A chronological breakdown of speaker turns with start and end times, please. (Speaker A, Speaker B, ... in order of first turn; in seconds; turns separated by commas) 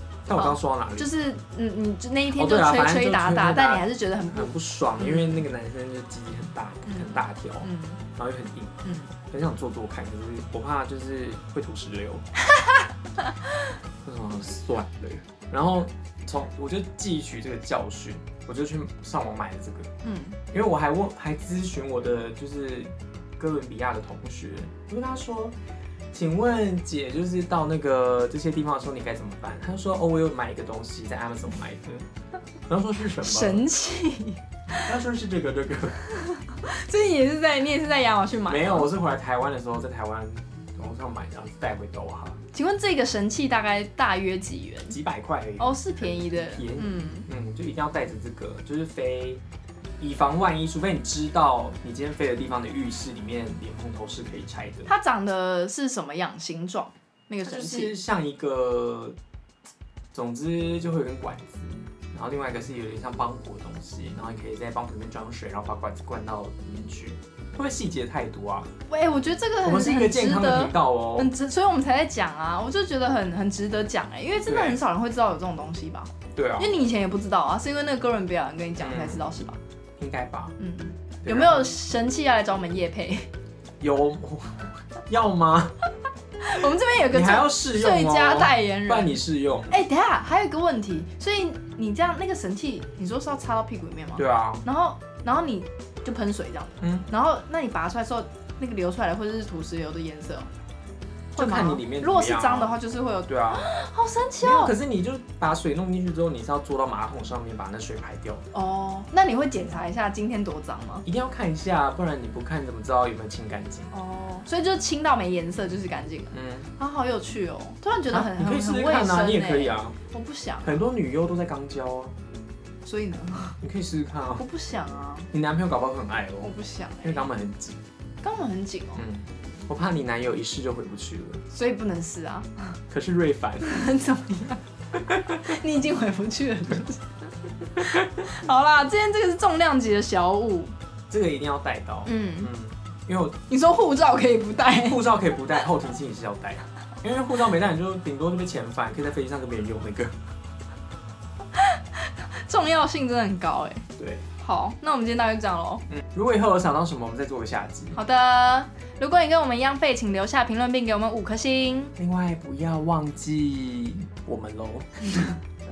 Speaker A: 0.3-1.1, Speaker B: 0.3-5.4, Speaker A: 2.4-12.2, Speaker B: 6.9-8.0, Speaker B: 8.8-9.1, Speaker A: 14.0-19.9, Speaker B: 20.0-20.4, Speaker A: 20.5-25.6, Speaker A: 26.1-32.1, Speaker A: 32.7-33.7, Speaker B: 33.2-34.9, Speaker A: 34.7-36.0, Speaker B: 36.2-38.9, Speaker A: 38.5-42.4, Speaker B: 42.5-45.0, Speaker A: 44.9-49.4, Speaker B: 45.6-47.3, Speaker A: 50.0-54.9, Speaker B: 54.9-58.0, Speaker A: 57.4-59.2, Speaker A: 60.1-68.7, Speaker B: 68.9-79.6, Speaker A: 69.6-71.3, Speaker A: 74.5-74.8, Speaker A: 76.3-76.8, Speaker A: 78.8-79.4, Speaker A: 80.0-80.6, Speaker B: 80.6-83.3, Speaker A: 81.2-81.7, Speaker A: 83.8-85.8, Speaker B: 86.4-89.2, Speaker A: 87.1-89.8, Speaker B: 89.7-100.5, Speaker A: 94.2-94.7, Speaker A: 96.8-97.1, Speaker A: 101.3-103.7, Speaker B: 101.4-104.8, Speaker A: 104.4-108.5, Speaker B: 108.5-111.1, Speaker A: 111.0-113.9, Speaker B: 113.9-120.9, Speaker A: 116.3-116.7, Speaker A: 118.1-120.0, Speaker A: 120.6-122.1, Speaker B: 122.8-123.6, Speaker A: 123.6-124.5, Speaker B: 124.3-125.3, Speaker A: 125.3-127.8, Speaker B: 126.4-127.3, Speaker B: 128.2-129.0, Speaker A: 129.0-131.4, Speaker B: 131.5-132.8, Speaker A: 132.9-133.7, Speaker B: 133.6-134.6, Speaker A: 135.0-135.5, Speaker B: 135.3-137.1, Speaker B: 137.8-140.7, Speaker A: 141.1-143.4, Speaker B: 142.1-142.5, Speaker B: 143.5-145.0, Speaker A: 144.7-150.2, Speaker B: 151.5-155.8, Speaker A: 154.0-154.2, Speaker A: 155.9-158.0, Speaker B: 157.9-161.9, Speaker A: 162.0-165.2